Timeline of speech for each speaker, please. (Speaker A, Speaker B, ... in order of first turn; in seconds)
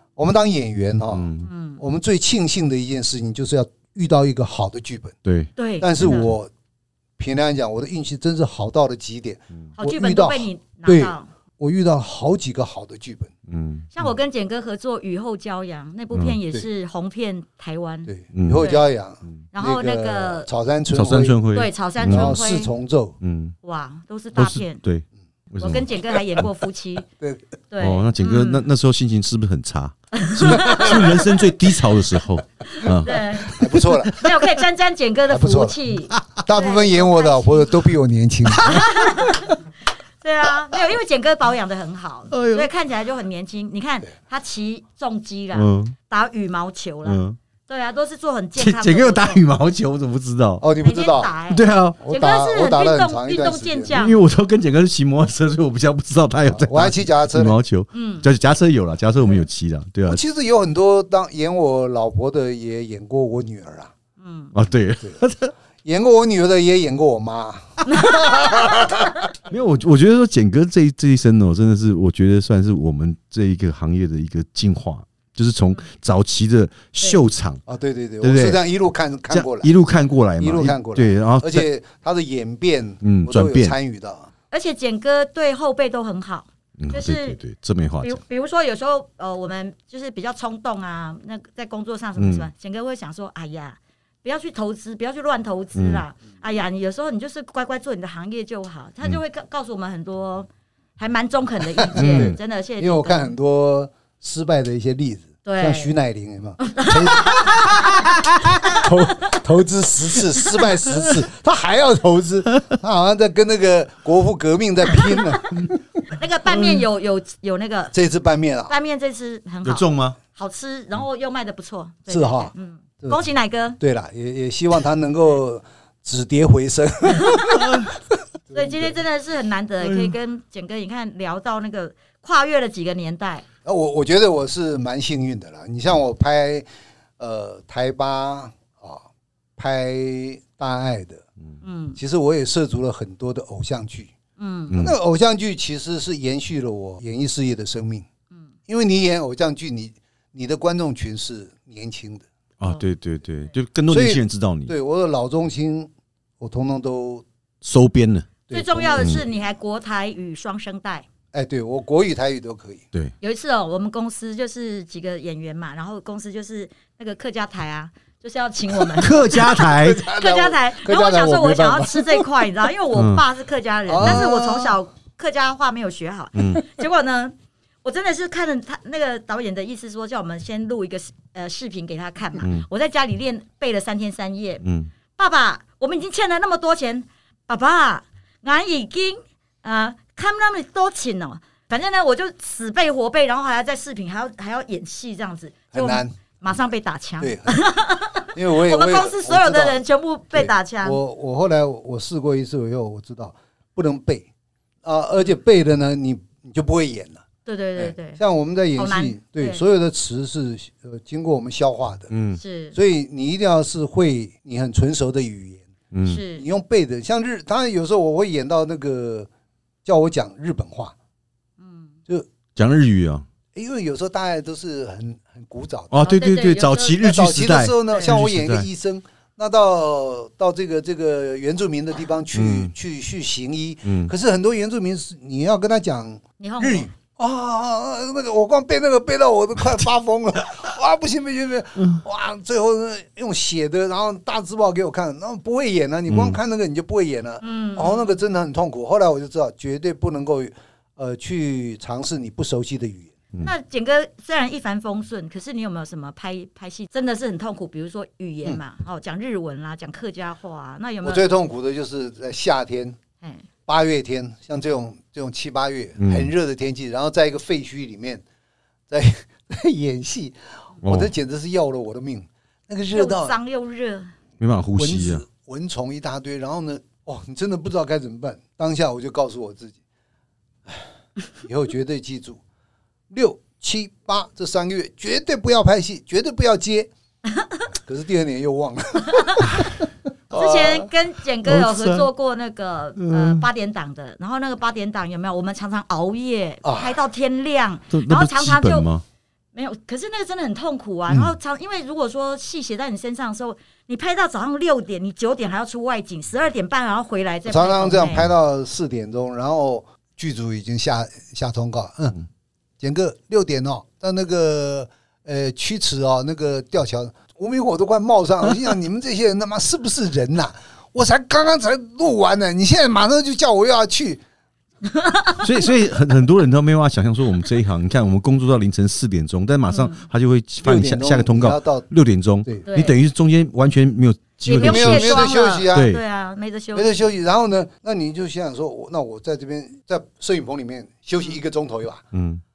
Speaker A: 0.2-5.2, 5.8-6.5, 7.2-13.3, 18.1-21.4, 22.0-23.2, 30.5-31.3, 33.1-34.2, 35.3-35.8, 36.4-39.4, 50.6-51.3, 52.0-54.0, 56.5-57.6, 60.1-63.9, 65.8-69.3, 77.7-79.8, 80.4-84.3, 101.8-116.0, 117.9-118.7, 122.1-123.2, 123.8-127.8, 128.5-129.0, 133.6-136.7, 137.2-139.0, 139.6-141.2, 142.0-144.1, 144.7-148.1, 148.7-152.2, 153.9-157.2, 158.5-159.3, 161.3-162.8, 169.0-172.3, 173.9-174.8, 195.7-196.1, 197.2-197.6, 198.3-204.3, 204.8-207.2, 207.8-212.1, 212.7-215.7, 216.3-219.3, 219.8-220.9, 223.5-226.1, 227.0-253.1, 261.0-263.0, 263.7-268.2, 268.9-273.3, 274.8-279.8, 281.4-282.4, 283.1-286.9, 287.8-290.9, 296.6-297.0, 307.5-312.2, 312.8-324.2, 330.6-331.9, 334.5-335.9, 336.7-342.0
Speaker B: 1.1-1.5, 5.2-6.3, 13.5-13.9, 16.1-16.4, 18.3-18.7, 20.9-22.3, 23.2-23.6, 24.4-26.5, 27.8-33.7, 42.3-42.7, 45.5-46.0, 47.0-47.4, 48.5-50.6, 51.5-52.0, 53.9-60.2, 64.5-65.5, 69.5-77.6, 78.2-78.6, 79.3-81.7, 83.0-83.7, 86.8-88.2, 92.2-92.5, 95.8-96.0, 102.0-102.3, 119.6-120.2, 127.6-127.9, 129.8-130.1, 144.7-144.9, 152.6-154.7, 157.6-158.3, 159.0-159.2, 169.0-170.1, 172.9-173.2, 176.3-176.6, 182.4-182.7, 184.6-184.9, 212.1-212.4, 215.9-216.2, 222.6-223.2, 225.9-228.7, 232.3-232.7, 233.8-234.1, 246.1-246.4, 266.0-266.3, 270.8-271.1, 274.4-275.2, 291.4-292.1, 293.0-293.4, 297.9-299.0, 325.4-336.0, 342.1-342.4
Speaker C: 1.4-1.8, 5.6-6.3, 9.8-11.3, 13.9-18.9, 19.5-20.5, 21.5-22.7, 23.6-24.8, 25.6-27.1, 27.7-28.6, 30.1-31.3, 32.7-37.8, 38.5-39.6, 40.2-49.4, 50.8-54.2, 57.9-58.3, 64.2-64.5, 67.8-69.2, 84.5-87.4, 88.0-103.3, 105.4-105.9, 106.6-108.0, 108.6-109.3, 115.1-115.5, 116.1-117.9, 118.7-123.8, 127.2-127.6, 128.5-133.4, 141.6-142.0, 144.4-144.8, 158.5-161.1, 163.2-184.6, 185.2-201.0, 207.4-208.2, 208.7-209.6, 212.4-212.7, 216.1-216.4, 221.6-222.0, 226.0-227.0, 227.9-228.1, 236.4-236.9, 247.4-248.2, 253.4-261.2, 272.9-274.1, 289.1-289.6, 290.3-298.9, 299.5-308.2, 324.8-325.4, 329.7-330.0, 332.6-332.9, 334.4-336.9